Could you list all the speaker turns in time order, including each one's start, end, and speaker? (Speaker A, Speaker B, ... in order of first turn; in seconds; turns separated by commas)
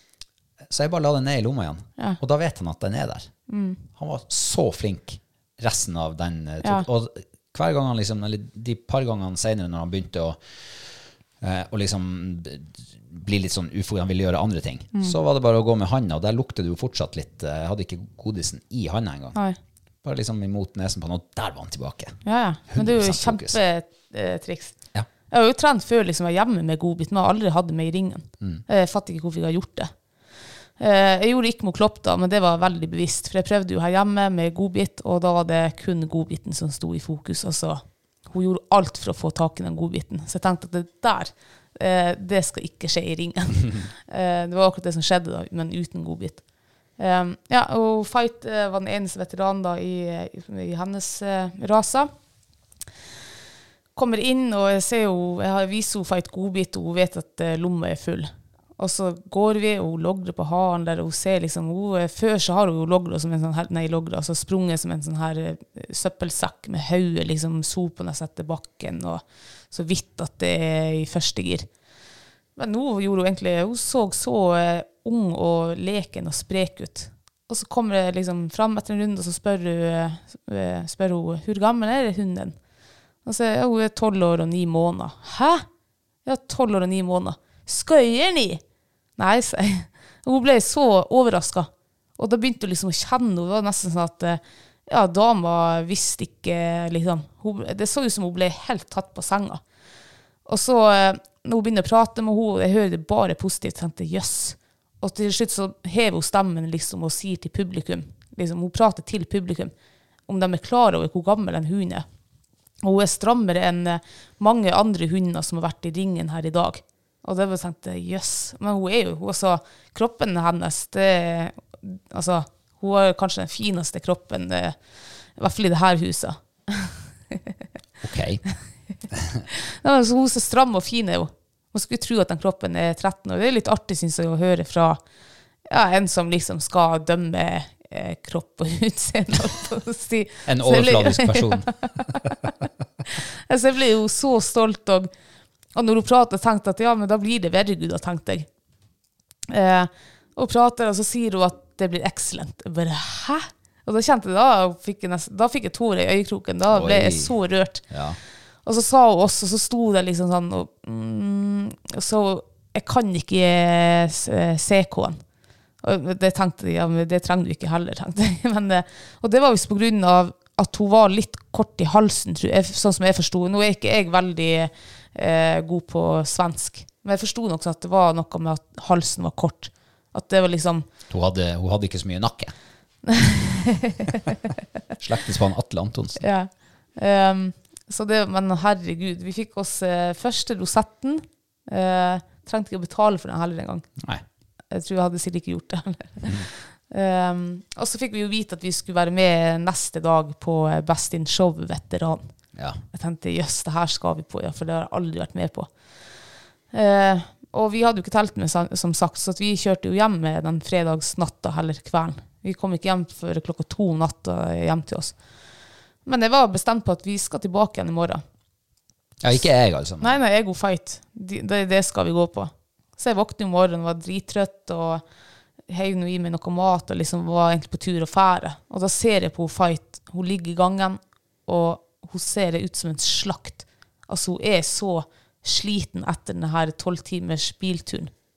Speaker A: 0.7-3.3, Speaker B: 3.5-3.8, Speaker A: 4.0-10.8, Speaker A: 11.4-19.4, Speaker A: 20.0-22.2, Speaker B: 22.2-24.8, Speaker A: 22.7-23.6, Speaker B: 25.3-29.9, Speaker B: 30.8-46.4, Speaker B: 47.0-52.1, Speaker B: 54.0-71.7, Speaker B: 72.6-82.6, Speaker B: 83.2-85.7, Speaker B: 86.2-88.6, Speaker B: 89.2-99.6, Speaker B: 100.5-109.7, Speaker B: 110.3-112.0, Speaker B: 112.8-124.8, Speaker B: 125.4-126.9, Speaker A: 128.0-128.4, Speaker A: 129.1-129.4, Speaker B: 129.5-135.0, Speaker B: 135.7-142.5, Speaker A: 140.5-142.1, Speaker B: 143.1-145.1, Speaker B: 145.8-148.5, Speaker B: 149.5-157.8, Speaker A: 156.7-157.4, Speaker A: 157.9-158.2, Speaker B: 158.7-165.2, Speaker B: 165.8-180.8, Speaker A: 181.1-182.5, Speaker B: 183.1-184.2, Speaker A: 185.0-186.2, Speaker B: 186.2-193.9, Speaker B: 194.7-202.2, Speaker A: 202.6-202.8, Speaker B: 202.9-205.7, Speaker B: 206.7-215.2, Speaker B: 216.1-218.2, Speaker A: 219.2-220.2, Speaker B: 220.0-225.0, Speaker B: 225.7-238.1